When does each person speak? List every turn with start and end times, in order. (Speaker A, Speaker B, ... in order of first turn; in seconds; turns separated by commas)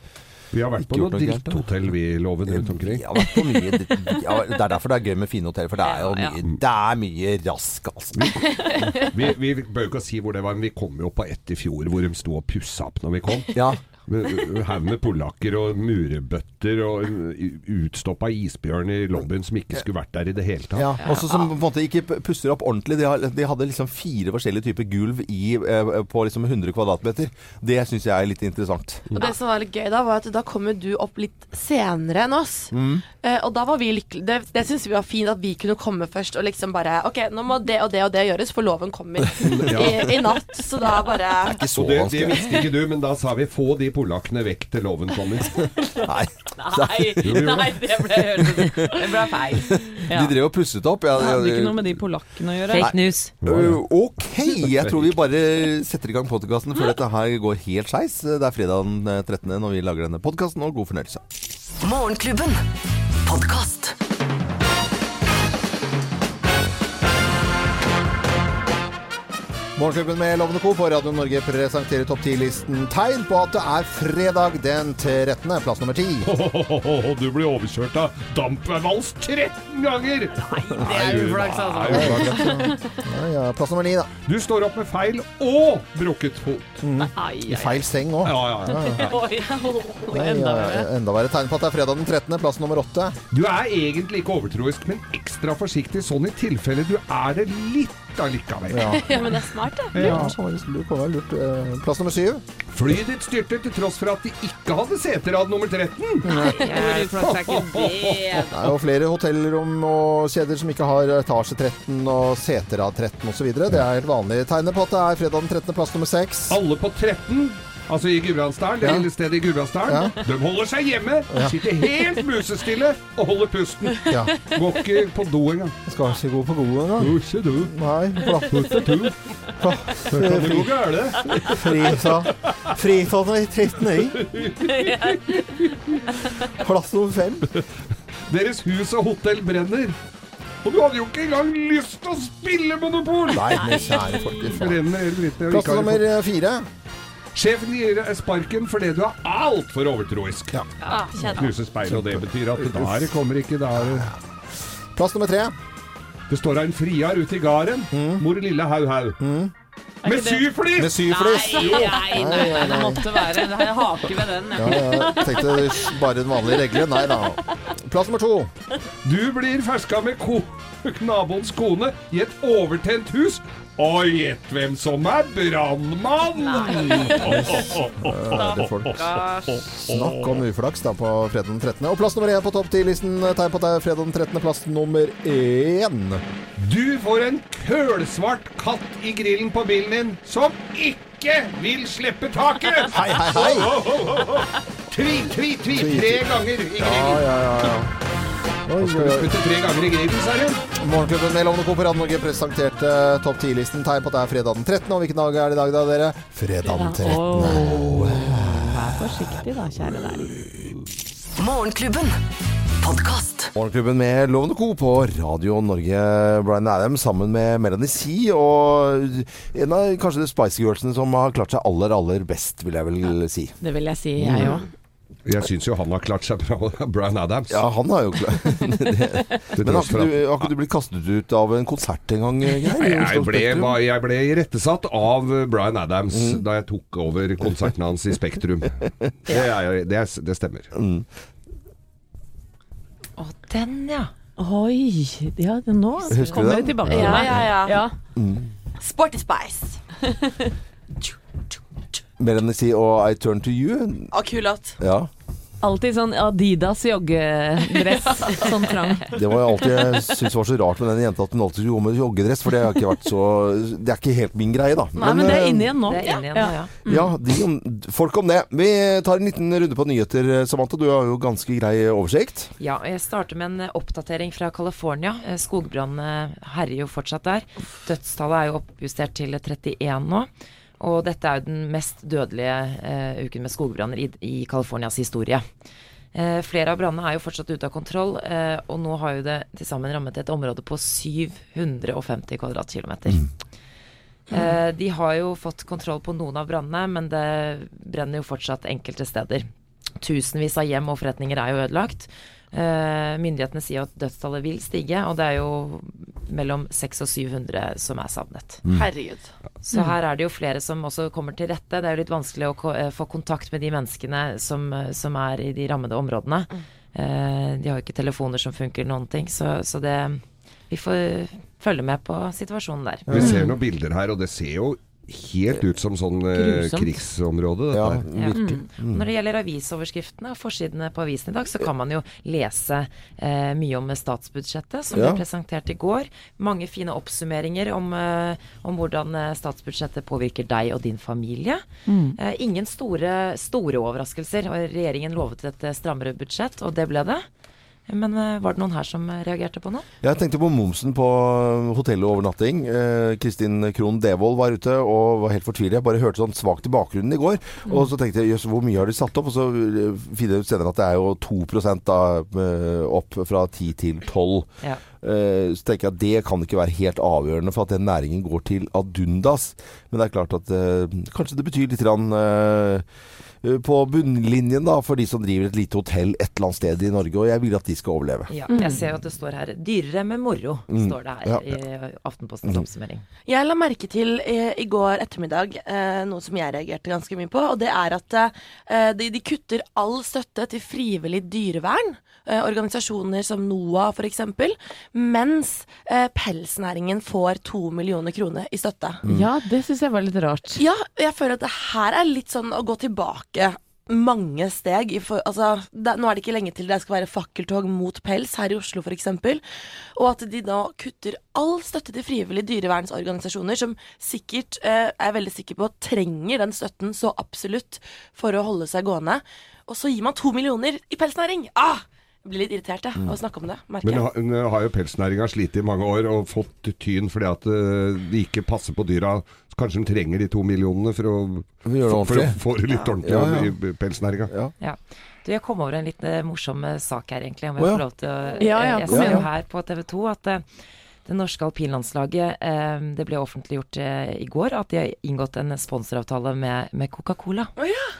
Speaker A: 0.5-3.0, Speaker B: 0.8-1.9, Speaker B: 2.5-8.4, Speaker C: 5.8-6.4, Speaker A: 8.2-20.9, Speaker C: 8.6-9.1, Speaker B: 13.5-13.8, Speaker B: 20.8-29.1, Speaker C: 21.0-21.4, Speaker D: 29.2-41.6, Speaker B: 32.7-33.0, Speaker B: 39.4-39.9, Speaker A: 39.4-40.2, Speaker B: 41.4-42.6, Speaker A: 41.8-45.6, Speaker C: 45.6-50.4, Speaker B: 46.0-49.0, Speaker A: 47.2-47.8, Speaker B: 49.6-52.0, Speaker C: 51.1-52.9, Speaker E: 52.7-53.3, Speaker B: 52.8-61.2, Speaker A: 53.4-53.8, Speaker A: 54.5-55.2, Speaker F: 61.8-62.6, Speaker F: 63.3-64.0, Speaker B: 69.8-76.3, Speaker A: 76.2-82.6, Speaker C: 80.4-83.0, Speaker B: 80.7-81.2, Speaker B: 81.9-84.1, Speaker A: 84.3-86.8, Speaker C: 86.8-87.9, Speaker B: 86.9-89.1, Speaker A: 88.2-89.2, Speaker C: 88.7-90.9, Speaker B: 90.1-93.2, Speaker A: 93.3-99.0, Speaker B: 98.7-99.0, Speaker C: 99.1-100.4, Speaker D: 99.1-99.5, Speaker A: 99.9-100.3, Speaker B: 99.9-102.4, Speaker A: 102.7-106.3, Speaker B: 106.2-106.6, Speaker C: 106.3-108.7, Speaker E: 106.6-107.1, Speaker A: 106.9-108.6, Speaker B: 108.5-116.6, Speaker A: 116.5-125.8, Speaker B: 118.8-119.1, Speaker B: 119.9-120.1, Speaker B: 121.3-121.6, Speaker B: 124.1-124.3, Speaker B: 125.9-128.9, Speaker A: 127.0-127.7, Speaker A: 128.5-129.3, Speaker B: 129.6-130.8, Speaker A: 130.1-132.7, Speaker C: 131.2-131.6, Speaker B: 131.3-134.2, Speaker A: 134.2-136.1, Speaker C: 134.6-135.7, Speaker C: 136.2-136.4, Speaker B: 136.6-137.6, Speaker A: 138.3-140.0, Speaker A: 140.6-144.0, Speaker B: 143.3-144.8, Speaker C: 143.6-144.6, Speaker A: 144.6-146.1, Speaker B: 145.5-146.7, Speaker A: 147.3-150.6, Speaker D: 150.8-151.5, Speaker C: 150.9-151.4, Speaker A: 151.3-154.1, Speaker B: 151.9-153.1, Speaker B: 153.8-154.2, Speaker B: 154.9-155.6, Speaker A: 156.3-159.2, Speaker B: 157.9-158.2, Speaker B: 159.2-159.5, Speaker C: 160.0-167.6, Speaker A: 160.0-162.0, Speaker B: 160.8-163.1, Speaker B: 164.6-168.5, Speaker A: 169.0-180.4, Speaker C: 176.4-177.7, Speaker B: 177.1-179.0, Speaker C: 178.4-179.4, Speaker B: 179.9-186.2, Speaker A: 186.6-197.7, Speaker B: 192.9-193.8, Speaker B: 195.8-197.9, Speaker B: 198.7-199.3, Speaker A: 198.8-200.6, Speaker B: 200.8-209.3, Speaker C: 206.7-210.4, Speaker F: 211.4-212.2, Speaker F: 212.8-213.5, Speaker B: 213.6-223.6, Speaker C: 223.6-224.7, Speaker B: 224.2-224.5, Speaker A: 225.3-227.6, Speaker B: 227.5-233.8, Speaker A: 229.6-230.5, Speaker A: 232.7-240.7, Speaker B: 236.1-236.4, Speaker B: 240.7-241.1, Speaker E: 243.2-244.1, Speaker C: 244.4-247.9, Speaker B: 246.1-247.4, Speaker E: 246.2-246.4, Speaker D: 246.9-247.8, Speaker B: 248.2-248.5, Speaker D: 248.8-249.8, Speaker B: 252.2-254.1, Speaker D: 254.1-254.8, Speaker B: 254.8-255.1, Speaker C: 255.6-260.0, Speaker D: 258.1-258.6, Speaker B: 259.1-265.8, Speaker C: 264.9-267.2, Speaker E: 265.8-266.8, Speaker D: 266.0-266.4, Speaker B: 266.9-272.5, Speaker E: 272.6-285.5, Speaker E: 286.1-293.2, Speaker E: 294.3-299.5, Speaker E: 300.0-308.6, Speaker D: 308.7-309.3, Speaker E: 309.7-323.2, Speaker B: 323.1-323.5, Speaker A: 323.1-328.1, Speaker C: 323.2-323.6, Speaker C: 326.3-327.0, Speaker B: 327.7-329.1, Speaker E: 328.1-347.3, Speaker C: 328.4-328.6, Speaker B: 334.9-335.2, Speaker C: 341.9-342.2, Speaker E: 347.9-349.9, Speaker B: 350.0-364.5, Speaker B: 365.0-372.8, Speaker B: 373.4-378.3, Speaker E: 378.3-383.0, Speaker C: 378.5-378.9, Speaker B: 380.7-381.5, Speaker D: 383.3-399.0, Speaker C: 399.1-400.6, Speaker D: 400.6-409.4, Speaker D: 409.9-424.1, Speaker A: 423.8-434.3, Speaker B: 431.6-432.4, Speaker B: 433.0-433.5, Speaker E: 434.6-440.5, Speaker B: 437.6-437.8, Speaker C: 438.4-439.3, Speaker B: 438.9-439.2, Speaker E: 441.1-447.5, Speaker D: 447.6-447.8